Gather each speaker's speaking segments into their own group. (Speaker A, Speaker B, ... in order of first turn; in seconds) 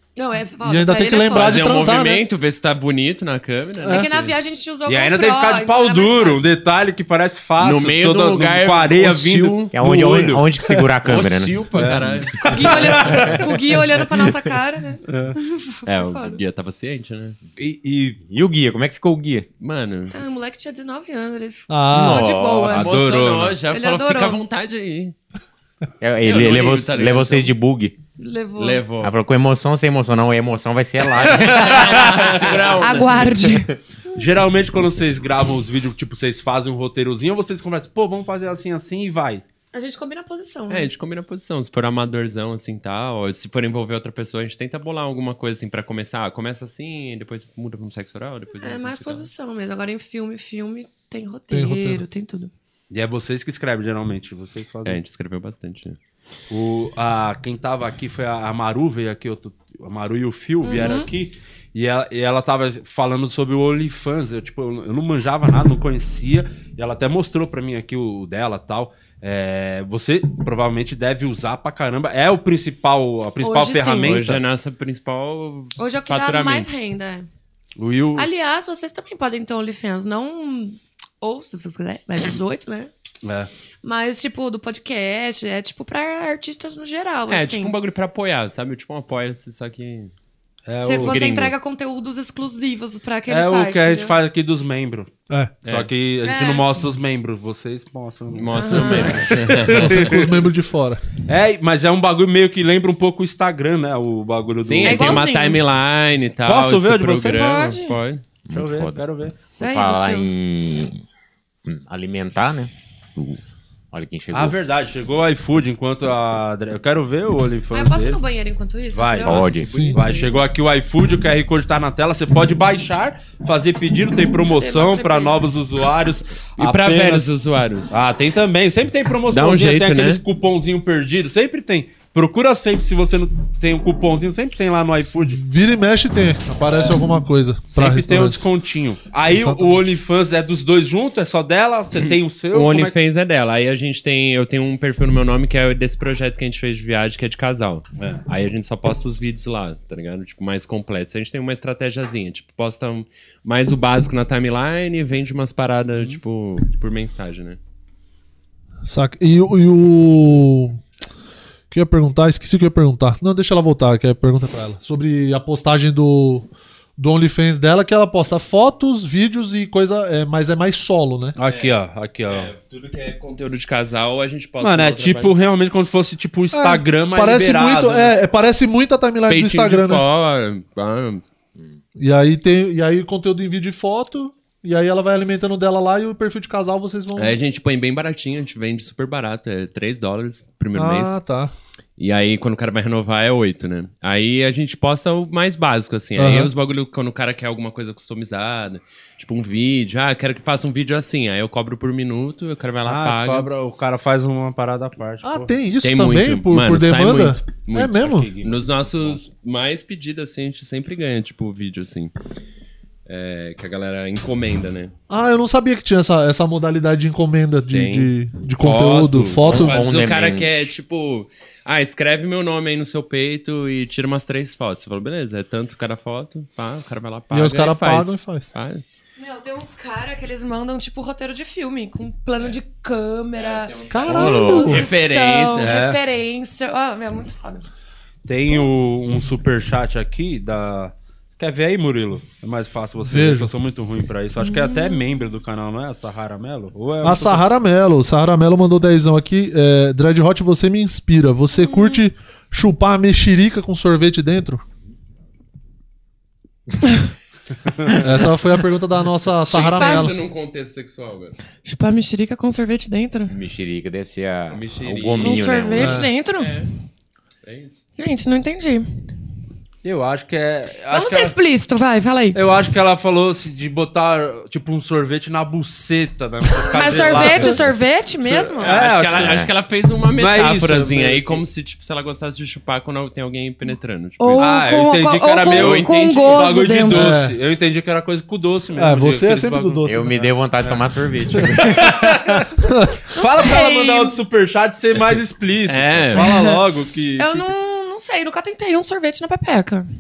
Speaker A: 0.2-1.7, 3.9-6.5, 12.3-16.4, 20.1-23.1, 23.7-24.4, 28.2-28.9, 32.8-33.7, 39.7-40.9, 48.6-52.5, 60.6-61.1, 73.4-74.2, 75.8-77.3, 78.2-82.9, 83.8-87.8, 90.8-94.2, 96.2-96.8, 98.5-99.2, 104.8-105.6, 107.3-108.0, 109.6-110.3, 117.7-120.4, 124.5-125.5, 229.2-237.7, 244.4-245.0, 251.5-252.0, 259.8-260.1, 261.6-263.3, 265.2-266.5, 268.0-268.9, 270.9-272.4, 276.5-278.9, 284.2-287.2, 293.2-294.2, 297.2-299.9
Speaker B: 0.6-2.3, 3.8-4.1, 21.7-22.3, 51.5-52.0, 99.7-101.0, 119.7-120.0, 135.0-138.5, 139.2-139.9, 158.8-160.8, 161.7-171.3, 176.5-180.1, 182.0-187.4, 190.8-191.5, 196.2-196.5, 205.2-208.3, 215.1-219.8, 227.3-228.5, 233.9-234.8, 243.1-243.5, 247.0-254.7, 258.0-260.1, 265.8-266.1, 286.9-287.3, 288.8-290.3, 292.6-293.0
Speaker C: 1.3-4.3, 7.6-9.7, 11.0-13.5, 15.9-17.4, 19.6-20.2, 22.7-25.1, 26.2-27.5, 28.6-29.2, 31.3-33.5, 40.7-49.3, 54.9-56.0, 74.0-76.7, 87.3-90.1, 91.0-91.5, 95.7-95.9, 98.3-100.2, 104.6-108.2, 126.6-127.9, 129.3-130.2, 142.0-157.6, 171.4-171.7, 172.3-175.3, 179.3-181.2, 187.2-191.2, 192.0-203.5, 205.8-212.1, 213.1-214.9, 217.7-228.8, 233.4-235.8, 259.5-261.4, 264.5-265.7, 266.3-266.7, 267.4-267.8, 276.9-277.6, 278.6-284.5, 285.5-286.6, 295.7-296.5
Speaker D: 4.9-10.5, 11.8-13.3, 15.1-15.4, 17.6-18.2, 22.7-23.6, 31.6-32.3, 34.1-39.4, 52.9-55.0, 56.5-74.4, 77.8-78.3, 83.2-83.5, 90.7-91.3, 93.3-95.1, 95.6-100.3, 101.3-105.3, 106.5-107.5, 108.5-109.4, 114.3-118.2, 118.9-127.3, 127.9-135.4, 137.7-143.0, 171.4-172.5, 174.6-178.2, 202.9-205.5, 208.0-209.2, 235.6-236.0, 238.3-247.4, 257.8-258.0, 269.8-271.4, 272.3-277.6, 278.2-279.4, 280.2-281.4, 284.4-289.9, 291.5-292.5, 293.1-297.5
Speaker E: 9.7-11.6, 18.3-19.5, 21.9-22.8, 26.0-28.0, 29.0-32.3, 108.5-109.0, 109.6-111.0, 111.7-113.4, 113.9-114.6, 119.2-119.7, 219.5-220.7, 234.1-234.8, 263.3-266.0, 279.2-279.5, 289.9-292.4